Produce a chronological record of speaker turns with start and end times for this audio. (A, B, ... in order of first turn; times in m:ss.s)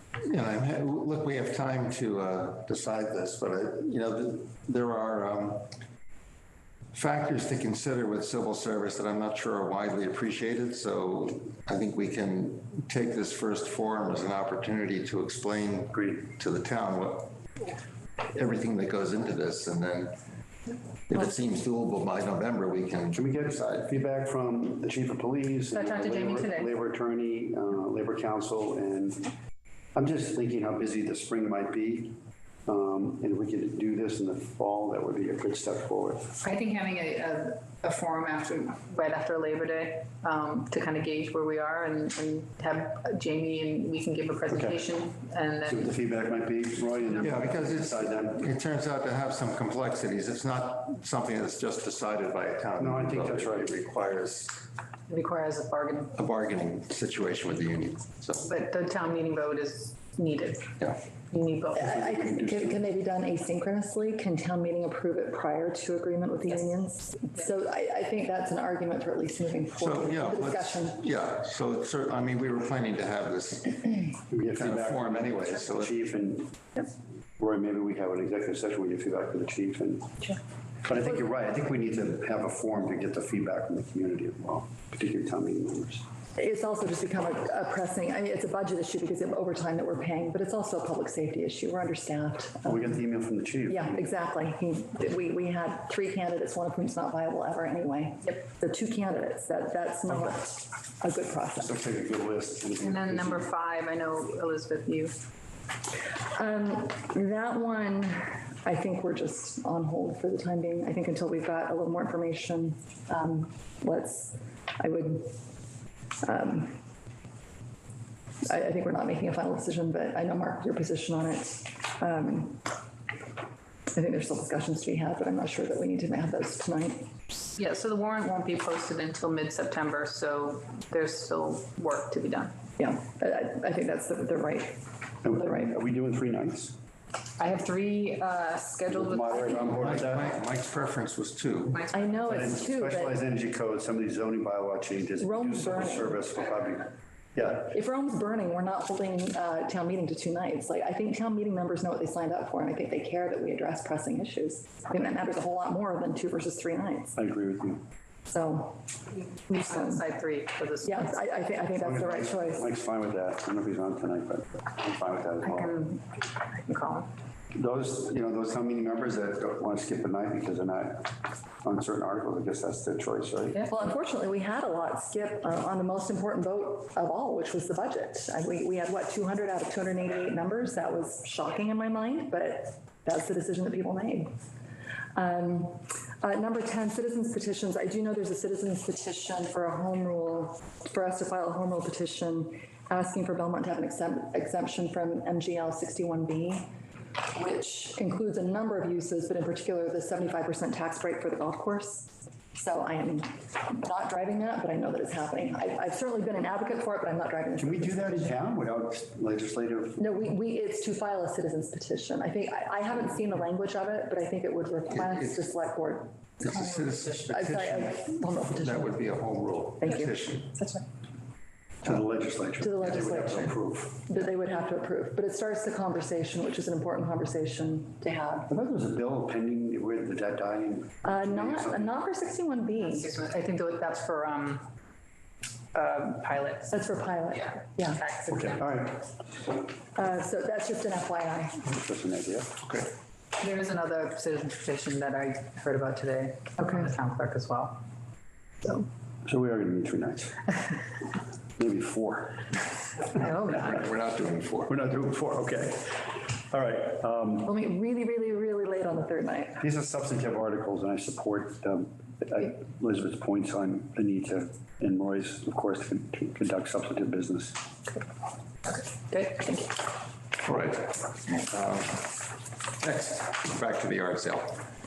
0:00.2-0:05.7 A
0:06.9-0:17.4 A
0:15.9-0:16.2 B
0:18.3-0:20.2 A
0:21.1-0:23.9 A
0:23.1-0:29.3 B
0:25.7-0:26.7 C
0:29.9-0:36.4 B
0:36.4-0:45.9 C
0:44.5-0:44.8 B
0:45.6-0:48.5 B
0:47.2-0:54.6 A
0:52.8-0:53.8 B
0:55.1-0:56.1 C
0:56.2-0:58.5 A
0:58.4-1:00.7 C
1:01.3-1:02.0 C
1:01.7-1:11.0 D
1:01.8-1:02.8 B
1:09.8-1:16.0 A
1:14.3-1:16.9 B
1:17.4-1:26.0 B
1:26.4-1:33.0 D
1:32.6-1:34.1 B
1:33.7-1:41.7 D
1:40.1-1:40.4 B
1:41.6-1:43.5 B
1:42.8-1:45.2 C
1:46.2-1:55.4 D
1:56.2-1:56.8 D
1:58.4-2:02.7 D
2:03.9-2:07.1 D
2:07.6-2:12.5 C
2:12.8-2:15.8 D
2:15.2-2:16.8 B
2:17.4-2:20.0 C
2:18.9-2:20.3 B
2:19.6-2:21.8 A
2:21.7-2:22.4 C
2:21.9-2:23.2 D
2:22.2-2:27.7 B
2:25.2-2:26.2 D
2:27.7-2:37.2 D
2:37.2-2:37.8 B
2:38.3-2:38.9 D
2:39.5-2:40.0 D
2:39.5-2:41.2 C
2:40.8-2:42.7 D
2:41.8-2:45.8 B
2:45.4-2:47.1 C
2:47.5-2:53.7 B
2:53.7-3:04.3 D
3:05.1-3:16.7 D
3:17.3-3:28.4 D
3:27.6-3:30.0 B
3:30.0-3:36.2 D
3:34.9-3:35.5 A
3:36.4-3:40.5 A
3:37.3-3:39.1 D
3:39.8-3:40.1 D
3:41.8-3:44.1 B
3:42.6-3:48.5 D
3:48.5-3:52.0 B
3:51.0-3:53.1 D
3:52.8-3:54.7 C
3:55.7-3:56.8 C
3:56.7-3:58.0 D
3:57.3-3:58.8 C
3:58.3-3:59.1 B
3:59.9-4:01.6 D
4:01.6-4:02.6 B
4:02.6-4:02.9 A
4:03.4-4:07.8 C
4:09.2-4:10.5 B
4:11.6-4:12.6 B
4:13.2-4:14.7 A
4:14.7-4:17.5 B
4:17.4-4:19.6 D
4:19.6-4:27.6 B
4:28.7-4:29.8 C
4:30.4-4:34.7 A